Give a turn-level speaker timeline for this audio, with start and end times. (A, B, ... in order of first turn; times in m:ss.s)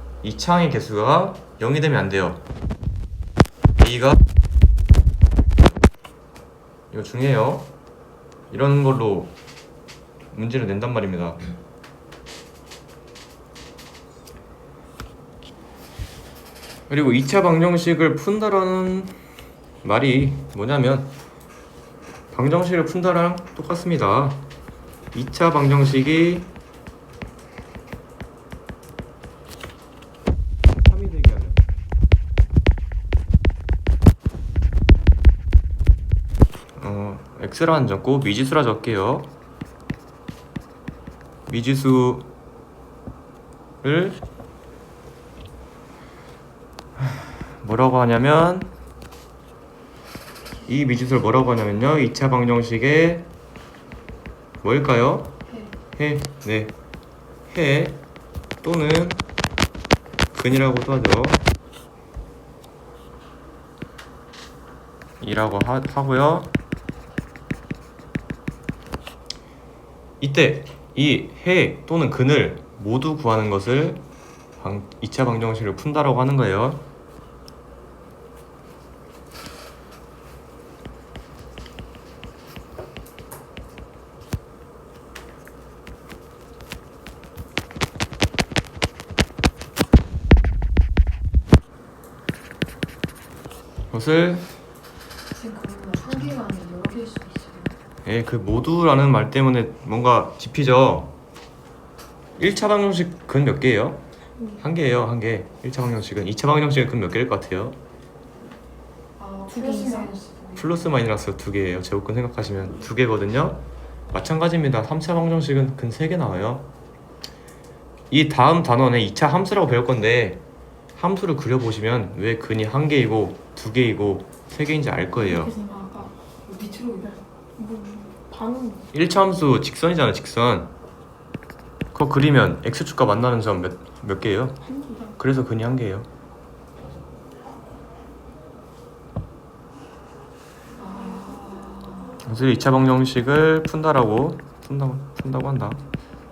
0:00.2-0:02.4 A
0:03.8-0:04.2 A
0:06.9-0:07.7 A
0:08.5-0:09.3 A
0:10.3-0:11.4 A
0:16.9-0:19.2 A
0:19.8-0:21.1 A
0:22.3-0:24.5 A
0:25.1-0:26.5 A
0:30.7-0:31.6 A
0:36.8-0:39.3 A
0:41.5-0:42.3 A
0:43.8-0:44.2 A
0:47.0-0:48.7 A
0:50.7-0:53.3 A
0:54.6-0:55.4 A
0:55.5-0:55.8 B
0:56.0-0:56.7 A
0:57.5-0:58.0 A
0:58.6-0:59.2 A
1:00.3-1:01.4 A
1:05.2-1:06.5 A
1:10.2-1:14.0 A
1:14.6-1:16.8 A
1:33.9-1:34.5 A
1:35.3-1:37.8 B
1:38.0-1:41.1 A
1:42.4-1:44.0 A
1:44.4-1:44.6 C
1:44.6-1:47.8 A
1:49.2-1:50.8 B
1:49.5-1:50.1 C
1:50.6-1:56.7 A
1:58.1-2:00.4 A
2:01.0-2:05.5 A
2:05.2-2:05.8 C
2:05.3-2:07.2 B
2:07.0-2:08.9 C
2:08.9-2:10.7 A
2:11.9-2:14.6 A
2:14.6-2:15.2 C
2:15.2-2:16.1 A
2:20.8-2:22.2 B
2:22.2-2:25.8 A